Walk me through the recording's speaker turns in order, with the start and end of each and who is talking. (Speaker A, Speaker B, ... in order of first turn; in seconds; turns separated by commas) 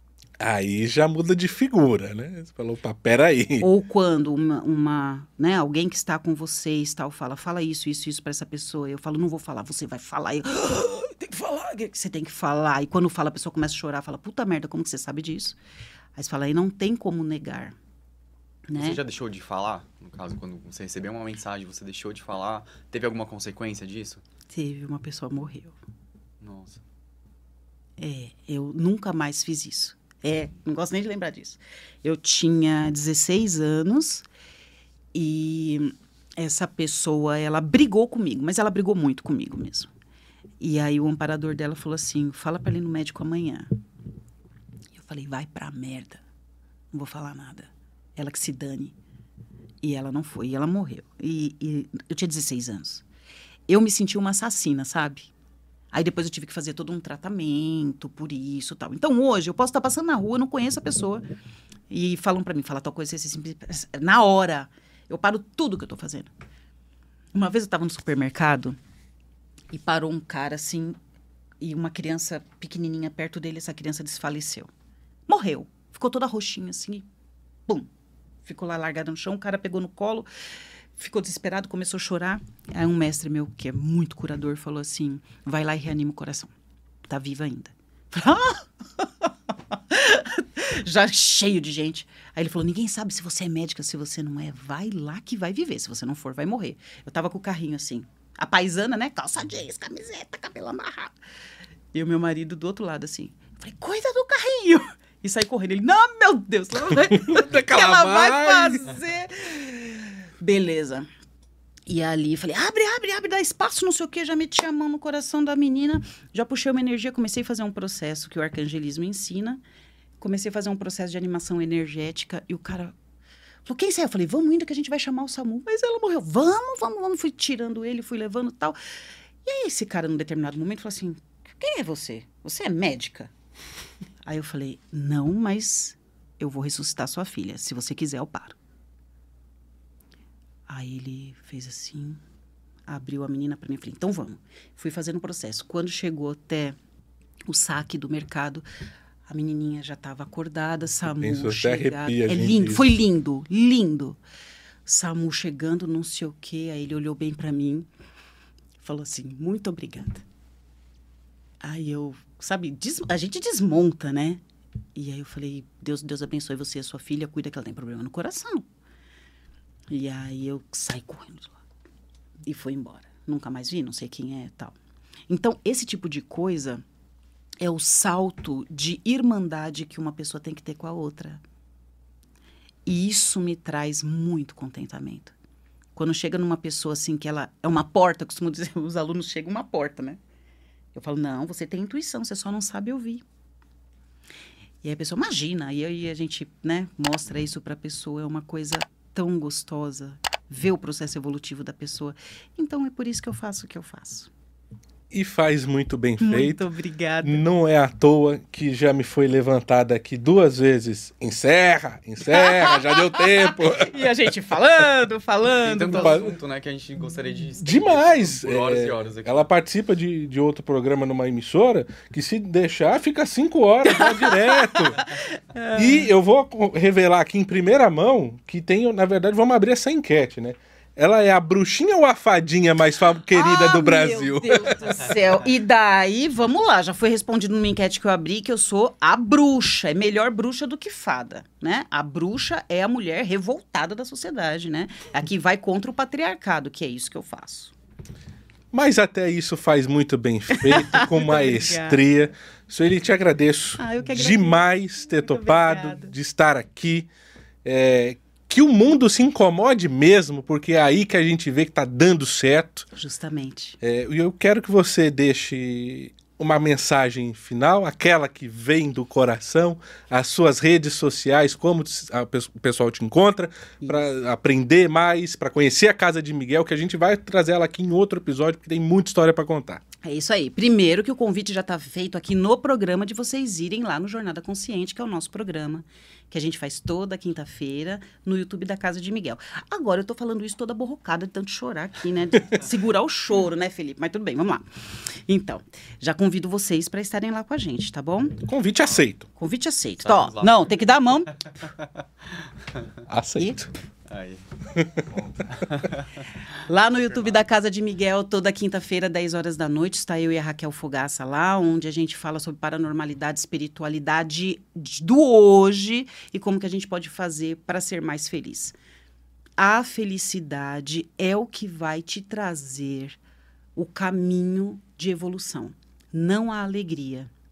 Speaker A: 0.4-3.7, Speaker B: 3.6-15.6, Speaker B: 16.2-17.8, Speaker B: 18.7-19.0, Speaker C: 18.8-24.2, Speaker B: 24.5-25.8, Speaker C: 26.4-26.8, Speaker B: 28.0-34.2, Speaker B: 35.1-39.9, Speaker B: 40.6-43.7, Speaker B: 44.9-46.2, Speaker B: 46.9-49.0, Speaker B: 49.8-53.0, Speaker B: 53.7-55.3, Speaker B: 55.9-61.2, Speaker B: 61.9-66.3, Speaker B: 67.3-68.8, Speaker B: 69.7-71.0, Speaker B: 71.6-74.7, Speaker B: 75.3-77.1, Speaker B: 78.5-80.3, Speaker B: 81.0-86.5, Speaker B: 87.1-101.1, Speaker B: 101.9-111.1, Speaker A: 107.3-108.8, Speaker B: 111.9-119.6, Speaker B: 120.2-123.0, Speaker B: 123.7-128.8, Speaker B: 129.4-133.3, Speaker B: 134.2-138.6, Speaker B: 140.7-142.2, Speaker B: 142.9-146.8, Speaker B: 147.5-148.7, Speaker B: 149.3-154.2, Speaker A: 151.2-152.9, Speaker B: 154.9-157.9, Speaker B: 158.8-160.2, Speaker B: 161.6-164.4, Speaker B: 164.9-168.7, Speaker B: 169.9-171.6, Speaker B: 172.4-174.8, Speaker B: 175.3-176.8, Speaker B: 177.6-181.4, Speaker B: 182.9-185.3, Speaker B: 186.0-190.2, Speaker B: 190.9-193.2, Speaker B: 194.8-204.3, Speaker A: 205.1-206.6, Speaker B: 206.2-207.4, Speaker A: 207.2-214.0, Speaker B: 212.3-216.2, Speaker C: 215.5-219.5, Speaker A: 215.9-216.4, Speaker A: 217.6-225.1, Speaker B: 223.8-226.1, Speaker A: 225.7-234.8, Speaker B: 233.3-247.7, Speaker A: 248.7-257.1, Speaker B: 250.5-252.0, Speaker B: 253.8-256.1, Speaker A: 257.6-262.9, Speaker B: 262.9-263.8, Speaker A: 263.8-279.8, Speaker B: 273.8-274.1, Speaker B: 280.0-298.4, Speaker A: 298.4-299.3, Speaker B: 299.4-301.3, Speaker C: 300.0-300.9, Speaker A: 303.1-303.7, Speaker B: 303.4-303.6, Speaker C: 304.1-304.4, Speaker A: 304.8-305.1, Speaker C: 305.4-306.2, Speaker B: 306.7-318.8, Speaker B: 319.6-323.2, Speaker B: 323.8-327.3